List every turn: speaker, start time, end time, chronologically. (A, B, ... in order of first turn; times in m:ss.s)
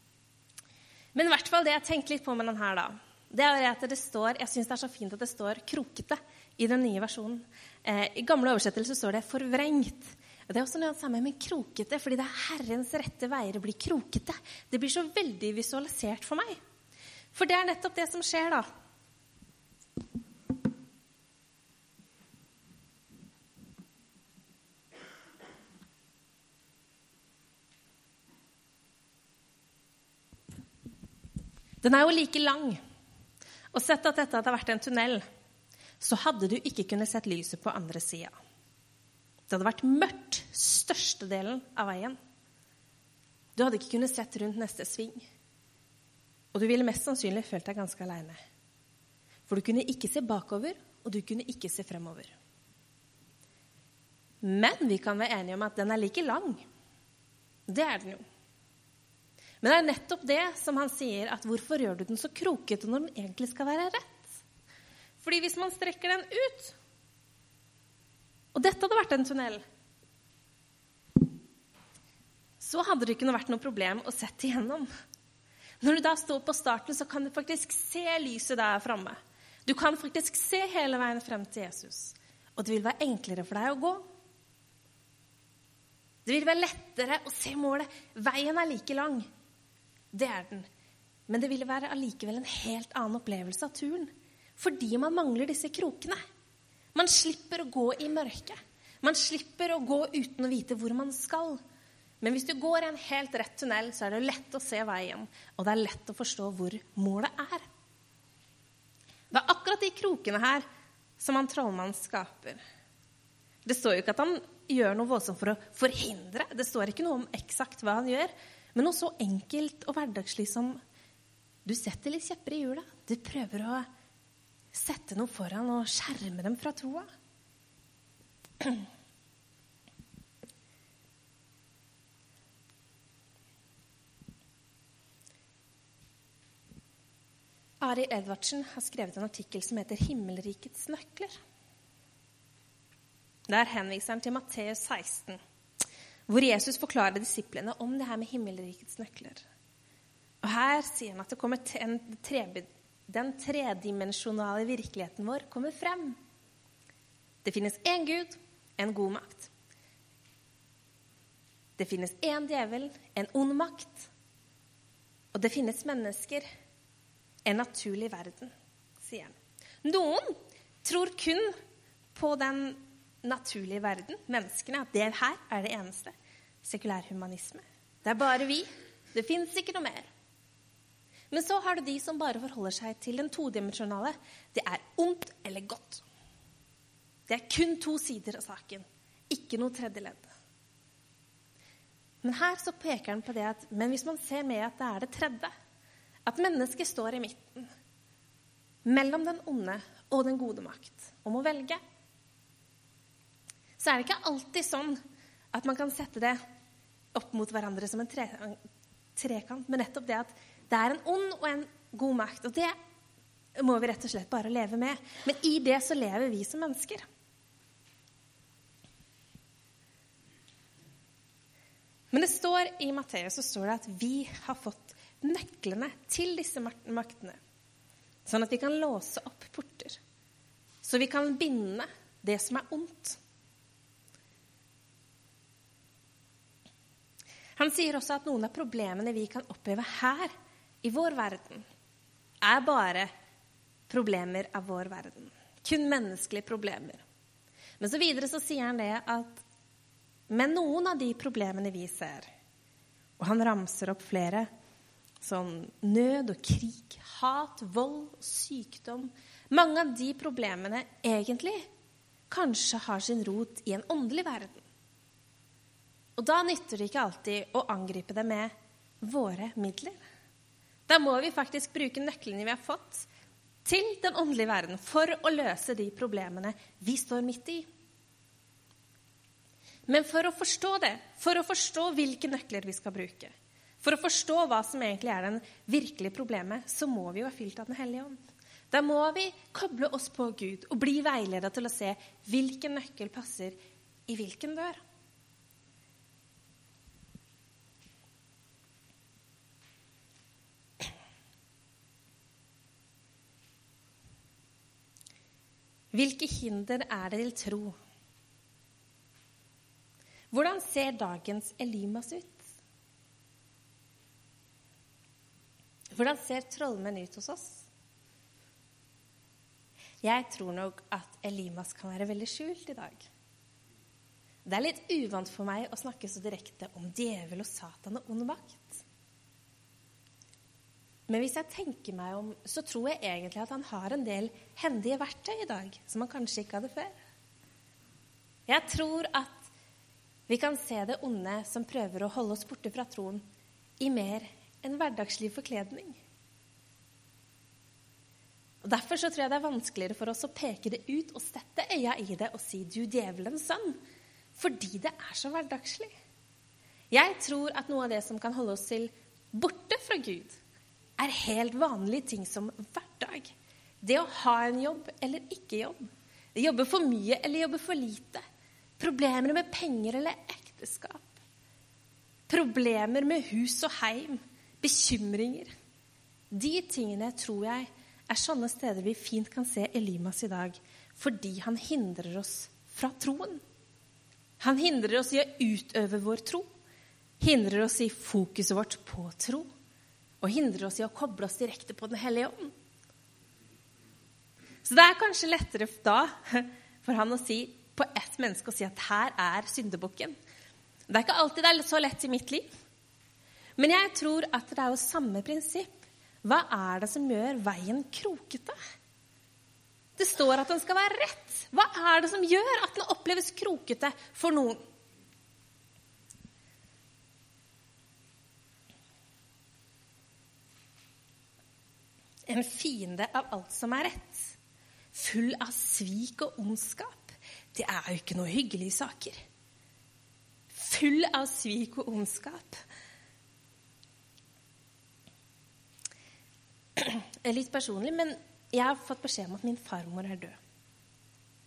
0:01.1-0:16.6 A
0:17.3-0:18.7 A
0:31.8-0:32.8 A
0:33.7-0:35.2 A
0:36.0-0:38.4 A
0:39.5-0:42.2 A
0:43.6-0:45.3 A
0:46.5-0:48.4 A
0:49.5-0:52.3 A
0:54.4-0:56.6 A
0:57.7-0:58.2 A
0:59.6-1:04.4 A
1:05.2-1:06.7 A
1:08.5-1:09.6 A
1:12.6-1:14.9 A
1:15.8-1:24.0 A
1:26.2-1:29.3 A
1:30.1-1:30.7 A
1:31.3-1:36.2 A
1:36.9-1:41.6 A
1:42.2-1:47.7 A
1:49.3-1:50.6 A
1:51.2-1:52.6 A
1:53.6-2:00.8 A
2:01.6-2:03.8 A
2:04.7-2:07.1 A
2:08.6-2:08.8 A
2:17.8-2:21.3 A
2:23.5-2:25.4 A
2:26.3-2:29.4 A
2:30.4-2:36.2 A
2:37.4-2:39.5 A
2:41.8-2:44.1 A
2:45.3-2:46.4 A
2:47.4-2:51.5 A
2:52.1-3:00.1 A
3:01.3-3:06.0 A
3:07.3-3:10.3 A
3:12.2-3:15.5 A
3:16.2-3:17.7 A
3:18.8-3:21.8 A
3:23.8-3:25.0 A
3:25.5-3:26.4 A
3:27.1-3:28.6 A
3:29.2-3:32.7 A
3:33.6-3:37.0 A
3:42.1-3:47.4 A
3:48.2-3:50.0 A
3:50.8-3:53.2 A
3:57.6-4:00.3 A
4:00.8-4:01.6 A
4:02.4-4:03.1 A
4:03.9-4:07.0 A
4:07.8-4:09.4 A
4:10.3-4:12.3 A
4:13.2-4:14.5 A
4:15.2-4:21.7 A
4:22.3-4:24.6 A
4:26.2-4:30.0 A
4:30.9-4:33.1 A
4:33.6-4:37.6 A
4:39.9-4:48.2 A
4:48.7-4:53.6 A
4:54.1-4:54.8 A
5:05.9-5:07.7 A
5:10.3-5:12.5 A
5:15.9-5:17.7 A
5:20.0-5:23.1 A
5:24.4-5:28.8 A
5:31.1-5:37.0 A
5:38.5-5:39.5 A
5:40.3-5:43.2 A
5:43.8-5:46.0 A
5:48.6-5:53.8 A
5:54.4-5:55.9 A
5:56.9-6:00.4 A
6:01.0-6:08.2 A
6:08.8-6:11.1 A
6:12.3-6:15.5 A
6:16.3-6:23.4 A
6:24.4-6:26.5 A
6:27.2-6:29.5 A
6:30.2-6:32.5 A
6:34.6-6:40.1 A
6:40.9-6:42.5 A
6:43.6-6:48.6 A
6:50.0-6:54.6 A
7:02.3-7:04.4 A
7:04.9-7:09.2 A
7:10.5-7:12.6 A
7:16.8-7:20.4 A